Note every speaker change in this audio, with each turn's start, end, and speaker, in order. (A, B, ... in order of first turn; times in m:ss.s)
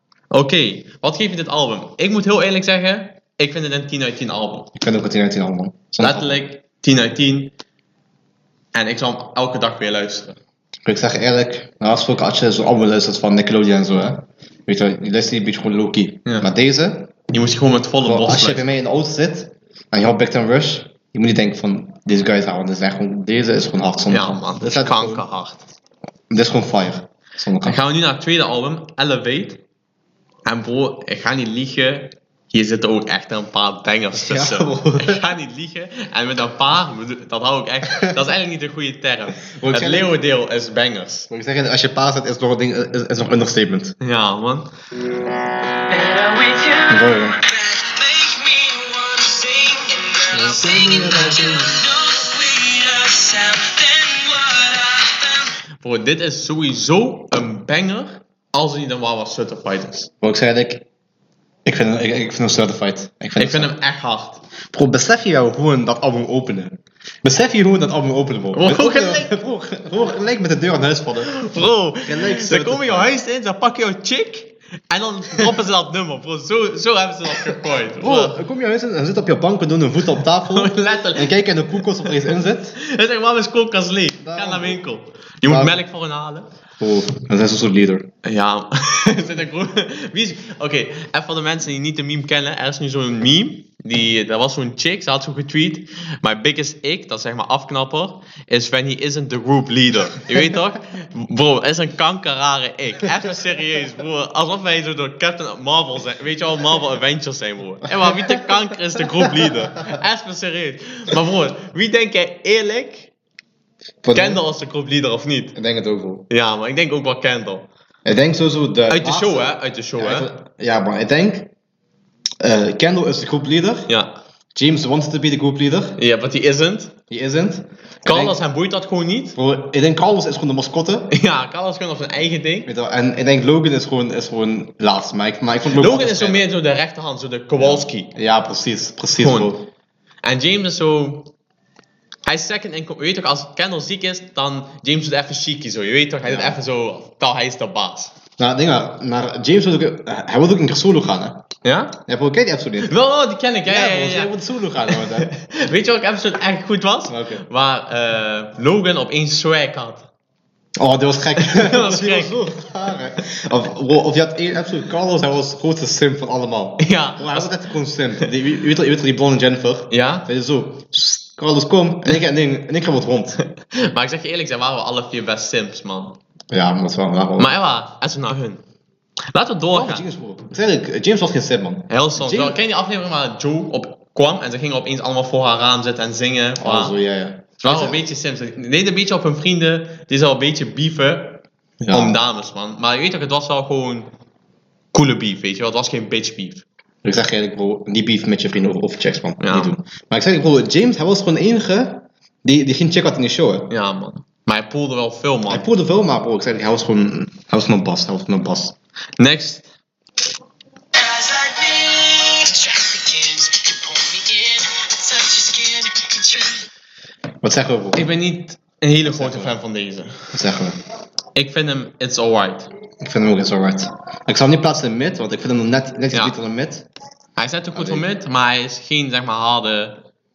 0:00.3-0:04.7 A
0:04.7-0:06.4 B
0:06.0-0:07.5 A
0:08.7-0:10.4 A
0:10.8-0:17.2 B
0:17.3-0:18.6 A
0:18.0-0:25.2 B
0:24.1-0:25.6 A
0:26.3-0:27.8 B
0:27.6-0:29.6 A
0:30.4-0:41.3 A
0:34.1-0:35.2 B
0:39.4-0:40.1 B
0:41.3-0:44.0 B
0:44.0-0:44.7 A
0:45.9-0:55.5 C
0:46.9-0:47.4 B
0:50.3-0:51.8 B
0:55.8-1:00.1 A
1:00.2-1:00.9 B
1:01.6-1:03.7 B
1:03.4-1:04.4 A
1:04.7-1:11.4 B
1:08.5-1:09.3 A
1:11.3-1:18.4 A
1:12.0-1:13.1 B
1:18.0-1:22.8 B
1:20.5-1:26.5 A
1:24.2-1:24.8 B
1:25.4-1:25.8 B
1:26.8-1:28.1 B
1:28.2-1:53.1 A
1:48.0-1:49.6 B
1:54.0-1:54.4 B
1:54.1-1:55.6 A
1:55.5-1:56.2 B
1:56.3-1:57.7 A
1:58.0-2:01.5 B
1:58.9-2:00.3 A
2:02.4-2:03.9 B
2:03.9-2:04.1 A
2:04.5-2:06.0 B
2:06.0-2:06.9 A
2:07.1-2:08.4 B
2:08.0-2:09.4 A
2:09.3-2:11.1 B
2:11.1-2:12.7 A
2:12.6-2:16.4 B
2:15.7-2:18.1 A
2:17.6-2:19.7 B
2:19.2-2:19.5 A
2:20.2-2:21.3 A
2:22.2-2:28.1 A
2:26.2-2:26.6 B
2:28.4-2:31.4 B
2:31.6-2:32.0 A
2:32.0-2:32.9 B
2:32.8-2:34.4 A
2:33.6-2:35.3 B
2:34.9-2:40.1 A
2:37.1-2:37.4 B
2:40.8-2:53.4 B
2:41.4-2:42.4 A
2:46.8-2:47.5 A
2:49.9-2:50.3 A
2:53.4-2:56.2 A
2:56.5-2:57.5 B
2:57.4-2:58.6 A
2:59.3-3:00.0 A
2:59.7-3:02.6 B
3:01.9-3:06.9 A
3:06.6-3:08.0 B
3:07.6-3:14.1 A
3:11.8-3:12.2 B
3:14.9-3:16.6 A
3:17.0-3:23.7 B
3:19.4-3:19.7 A
3:23.7-3:25.6 A
3:25.5-3:28.7 B
3:29.2-3:29.7 A
3:30.9-3:36.7 C
3:37.4-3:38.1 B
3:37.9-3:40.3 A
3:39.0-3:39.6 B
3:40.3-3:40.8 B
3:41.3-3:42.7 A
3:43.0-3:46.9 B
3:47.4-3:50.0 A
3:47.7-3:48.1 B